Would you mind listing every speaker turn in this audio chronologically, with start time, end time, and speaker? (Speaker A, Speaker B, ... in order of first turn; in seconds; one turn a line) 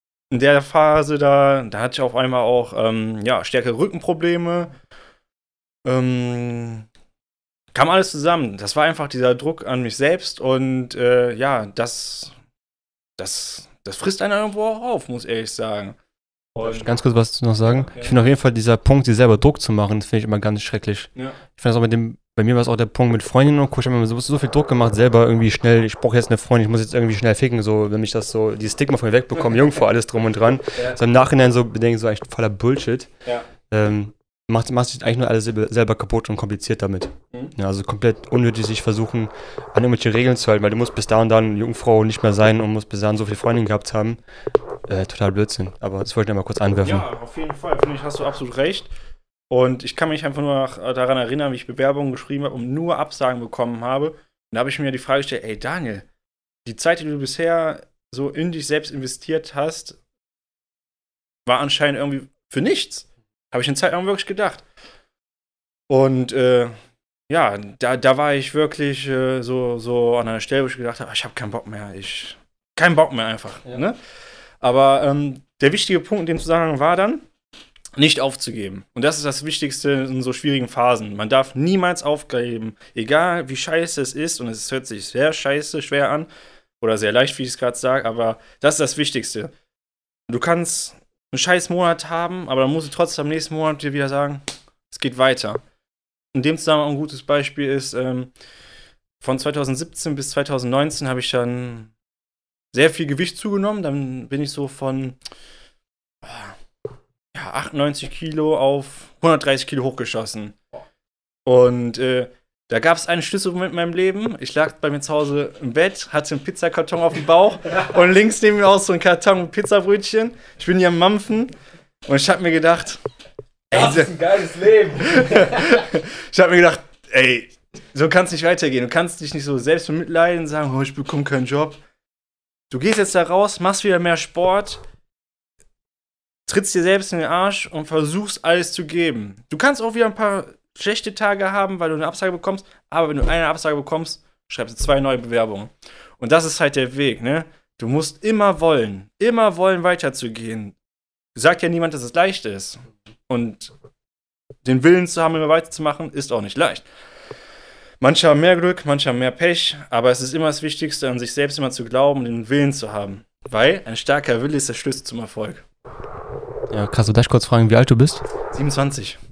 Speaker A: 0.3-4.7
Speaker A: 5.8-6.8
Speaker A: 7.7-12.3
Speaker A: 13.2-15.9
Speaker A: 16.5-16.9
Speaker B: 16.6-33.1
Speaker A: 17.7-18.1
Speaker B: 33.7-44.2
Speaker B: 44.9-47.0
Speaker A: 46.8-48.9
Speaker A: 49.5-56.0
Speaker A: 56.6-60.0
Speaker A: 61.5-64.6
Speaker A: 65.9-66.7
Speaker A: 67.3-74.0
Speaker A: 74.6-77.2
Speaker A: 77.9-86.3
Speaker A: 86.8-89.5
Speaker A: 90.3-95.6
Speaker A: 96.3-98.3
Speaker A: 99.2-101.9
Speaker A: 102.7-105.2
Speaker A: 106.2-106.5
Speaker A: 107.3-110.6
Speaker A: 111.5-121.5
Speaker A: 122.1-123.0
Speaker A: 123.7-131.8
Speaker A: 132.7-134.8
Speaker A: 136.5-150.7
Speaker A: 151.3-153.7
Speaker A: 154.6-156.8
Speaker A: 158.0-165.6
Speaker B: 166.7-168.2
Speaker A: 168.5-169.2